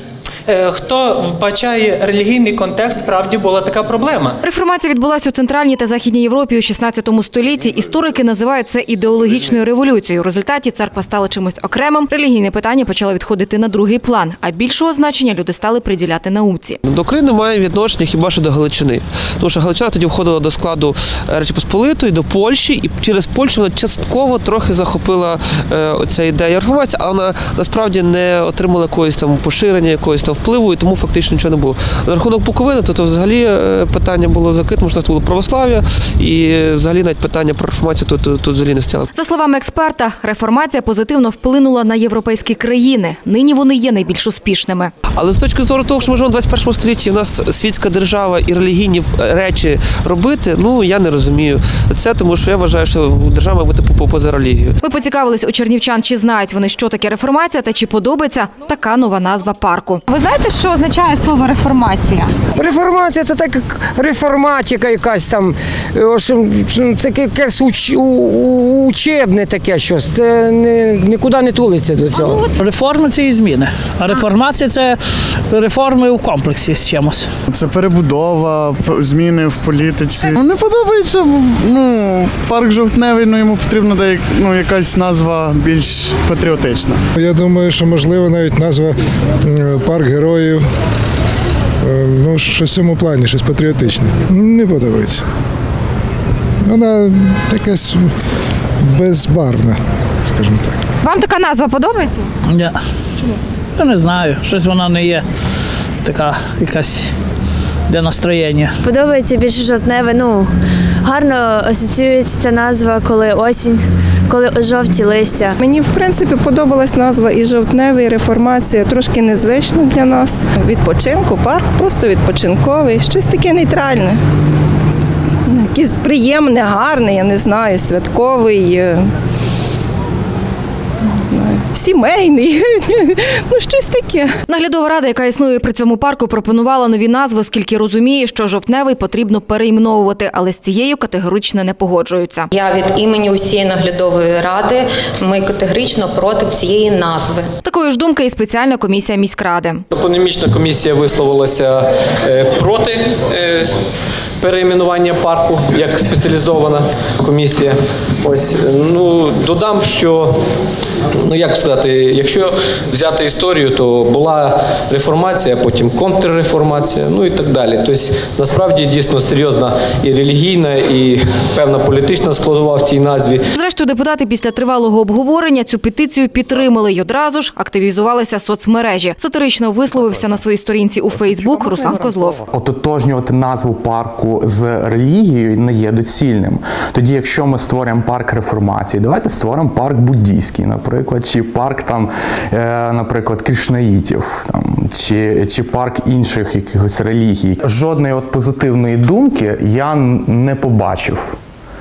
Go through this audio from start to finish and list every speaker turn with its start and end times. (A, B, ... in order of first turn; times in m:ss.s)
0:00.5-0:04.4 A
0:04.4-0:16.8 B
0:16.8-0:39.1 C
0:39.1-0:44.9 B
0:45.1-0:54.8 C
0:54.8-1:02.3 B
1:02.6-1:12.5 D
1:12.2-1:15.0 E
1:15.5-1:17.3 E
1:17.5-1:27.0 F
1:27.2-1:28.9 G
1:29.4-1:30.6 G
1:31.8-1:35.2 G
1:36.6-1:38.1 G
1:38.9-1:40.8 G
1:41.0-1:42.3 B
1:42.5-1:45.2 E
1:46.0-1:47.1 E
1:47.9-1:48.8 E
1:48.8-1:55.6 H
1:55.7-2:04.2 I
2:05.6-2:08.9 I
2:11.4-2:12.5 I
2:13.6-2:14.3 I
2:14.5-2:22.5 B
2:22.5-2:27.5 J
2:27.6-2:29.8 B
2:29.9-2:33.8 K
2:34.4-2:40.4 K
2:41.2-2:53.4 K
2:53.5-3:02.4 B
2:59.9-3:00.4 C
3:01.1-3:02.5 C
3:02.5-3:21.4 L